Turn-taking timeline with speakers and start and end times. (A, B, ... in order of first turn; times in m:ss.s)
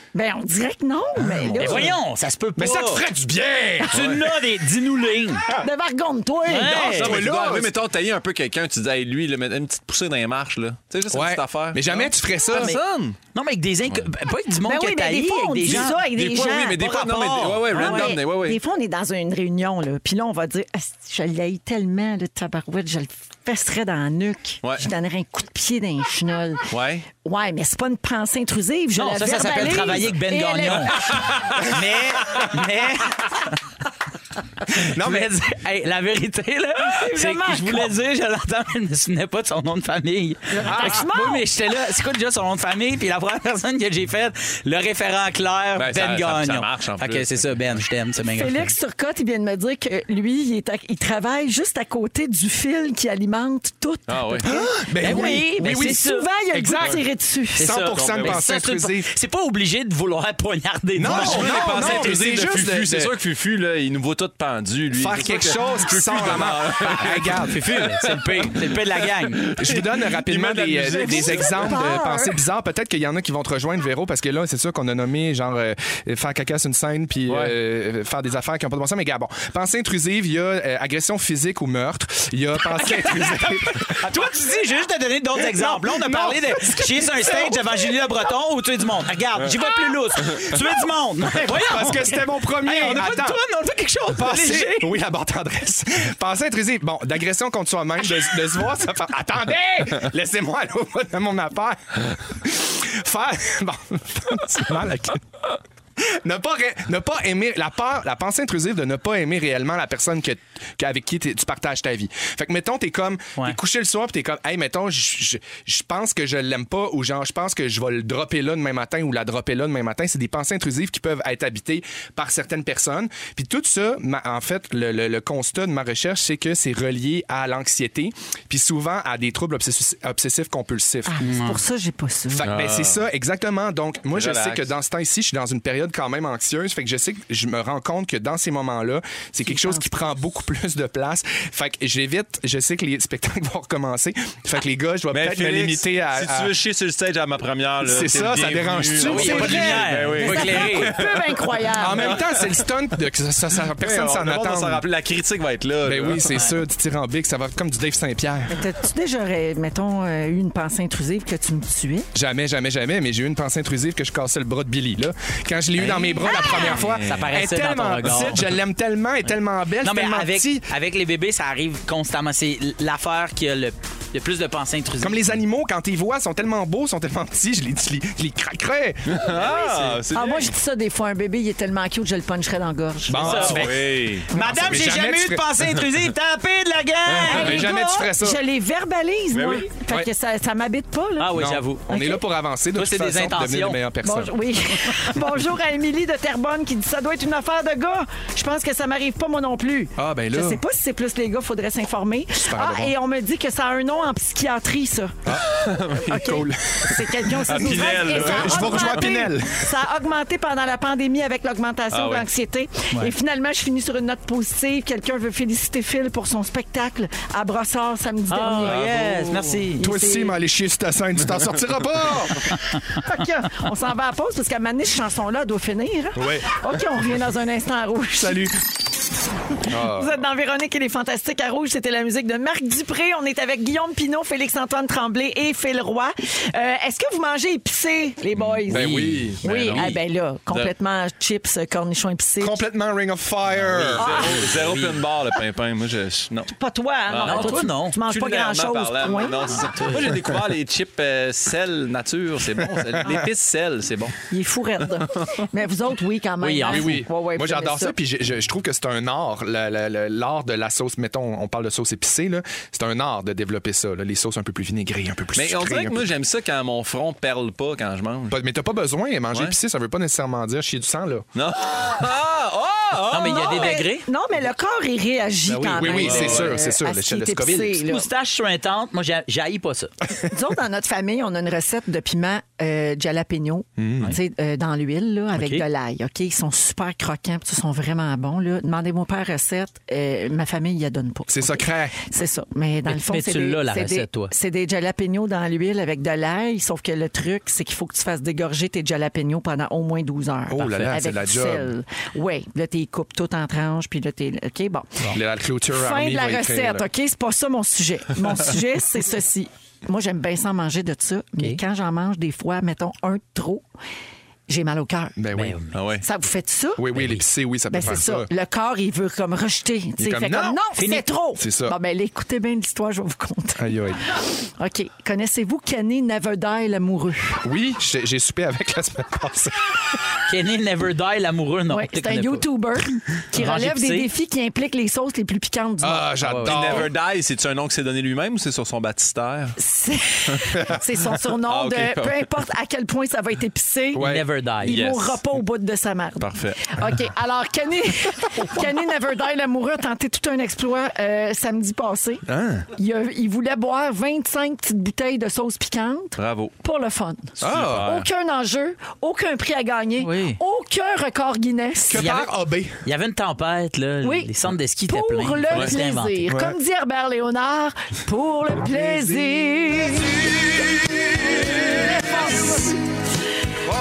0:00.1-0:02.0 A
0:01.2-0:01.9 B
0:01.6-0:03.0 C
0:02.6-0:04.4 B
0:03.9-0:05.5 C
0:03.9-0:04.2 D
0:05.6-0:06.9 A
0:06.5-0:07.2 C
0:06.7-0:13.2 D
0:06.7-0:07.7 B
0:11.1-0:12.8 B
0:12.5-0:12.8 C
0:13.3-0:16.0 C
0:14.6-0:31.7 A
0:15.7-0:18.6 D
0:16.8-0:18.2 C
0:24.6-0:24.9 D
0:26.7-0:27.1 D
0:29.0-0:33.6 C
0:30.9-0:31.6 D
0:34.7-0:35.3 B
0:34.8-0:48.6 C
0:36.8-0:37.9 A
0:40.5-0:41.5 A
0:40.6-0:41.0 B
0:45.8-0:47.8 D
0:48.3-0:57.7 A
0:54.1-0:54.5 D
0:54.4-0:56.0 B
0:55.0-0:56.8 C
0:57.6-1:02.1 C
0:57.6-0:59.1 B
0:58.0-0:58.4 D
1:01.0-1:03.1 B
1:01.0-1:11.9 D
1:04.9-1:07.7 B
1:06.8-1:09.4 C
1:09.6-1:24.1 B
1:10.9-1:12.4 A
1:17.3-1:17.5 D
1:22.8-1:35.0 C
1:25.4-1:28.0 B
1:31.3-1:33.4 B
1:34.1-2:11.3 B
2:11.1-2:12.4 A
2:11.2-2:11.6 C
2:12.3-2:26.5 B
2:12.4-2:13.0 D
2:14.1-2:14.7 D
2:19.5-2:19.9 A
2:25.1-2:32.6 D
2:27.8-2:30.0 B
2:29.0-2:31.0 C
2:29.1-2:32.2 A
2:31.8-2:34.8 B
2:33.8-2:36.3 D
2:35.8-2:38.7 B
2:36.3-2:36.6 C
2:38.5-2:42.1 A
2:42.2-2:50.7 B
2:45.8-2:48.4 C
2:46.3-2:46.8 A
2:46.7-2:47.2 D
2:49.8-2:55.2 C
2:55.0-3:00.0 B
2:59.1-3:00.5 D
3:00.1-3:03.4 A
3:03.1-3:05.6 B
3:03.2-3:04.3 D
3:03.2-3:07.6 C
3:07.1-3:08.4 B
3:07.2-3:11.4 A
3:09.3-3:09.7 D
3:11.2-3:11.9 C
3:11.4-3:14.4 B
3:11.9-3:12.2 A
3:12.8-3:13.8 C
3:14.0-3:25.2 A
3:20.0-3:20.6 B
3:22.4-3:23.0 B
3:25.3-3:29.8 B
3:25.5-3:26.3 D
3:26.0-3:38.8 A
3:27.4-3:29.3 D
3:31.9-3:32.3 D
3:38.3-3:39.8 C
3:38.5-3:39.6 D
3:39.8-3:40.4 A
3:39.8-3:42.6 B
3:42.9-3:48.4 A
3:46.2-3:46.6 B
3:48.2-3:48.6 B
3:49.6-4:02.6 A
3:49.7-3:50.2 B
3:58.4-3:58.6 D
3:58.7-3:59.4 B
3:58.7-4:00.0 C
3:59.4-3:59.9 D
4:02.4-4:04.4 B
4:03.6-4:06.5 D
4:04.0-4:04.5 A
4:04.2-4:05.0 C
4:06.5-4:09.7 A
4:07.1-4:14.2 D
4:07.2-4:08.0 C
4:09.5-4:10.1 C
4:12.8-4:13.2 B
4:14.3-4:18.0 A
4:16.4-4:17.0 C
4:16.7-4:26.1 B
4:25.4-4:28.4 D
4:28.3-4:31.2 B
4:31.4-4:33.8 D
4:33.1-4:34.1 C
4:33.2-4:38.1 A
4:35.5-4:37.8 B
4:35.5-4:36.4 C
4:36.0-4:36.5 D
4:37.9-4:39.9 C
4:40.3-5:05.1 A
4:43.8-4:44.1 B
4:45.4-4:45.6 C
4:51.3-4:52.0 B
4:52.9-4:54.3 C
5:00.5-5:01.7 B
5:05.1-5:06.9 B
5:05.7-5:13.6 A
5:14.5-5:15.2 A
5:15.2-5:15.6 B
5:15.3-5:15.8 C
5:15.7-5:16.0 D
5:16.0-5:16.9 A
5:16.8-5:18.3 B
5:17.0-5:17.2 C
5:17.7-5:27.4 A
5:20.0-5:20.6 B
5:20.8-5:21.1 C
5:21.4-5:21.8 B
5:23.6-5:24.0 B
5:27.4-5:30.0 B
5:30.3-5:32.5 C
5:31.7-5:36.1 A
5:33.3-5:34.1 C
5:35.8-5:36.9 B
5:36.2-5:36.6 C
5:36.4-5:39.6 D
5:39.6-5:44.1 A
5:41.4-5:42.4 D
5:43.9-5:44.2 B
5:44.0-5:44.8 C
5:44.6-5:52.2 A
5:44.6-5:45.2 D
5:46.2-5:46.8 D
5:52.3-5:52.6 B
5:52.8-6:02.1 A
5:56.2-5:56.5 D
5:57.4-5:57.9 B
5:57.4-5:58.1 D
6:00.0-6:00.4 C
6:01.9-6:02.8 B
6:02.0-6:02.3 C
6:02.8-6:06.3 C
6:04.0-6:04.3 A
6:04.9-6:10.7 A
6:06.3-6:06.6 B
6:08.6-6:09.5 B
6:10.8-6:12.6 B
6:11.4-6:12.8 A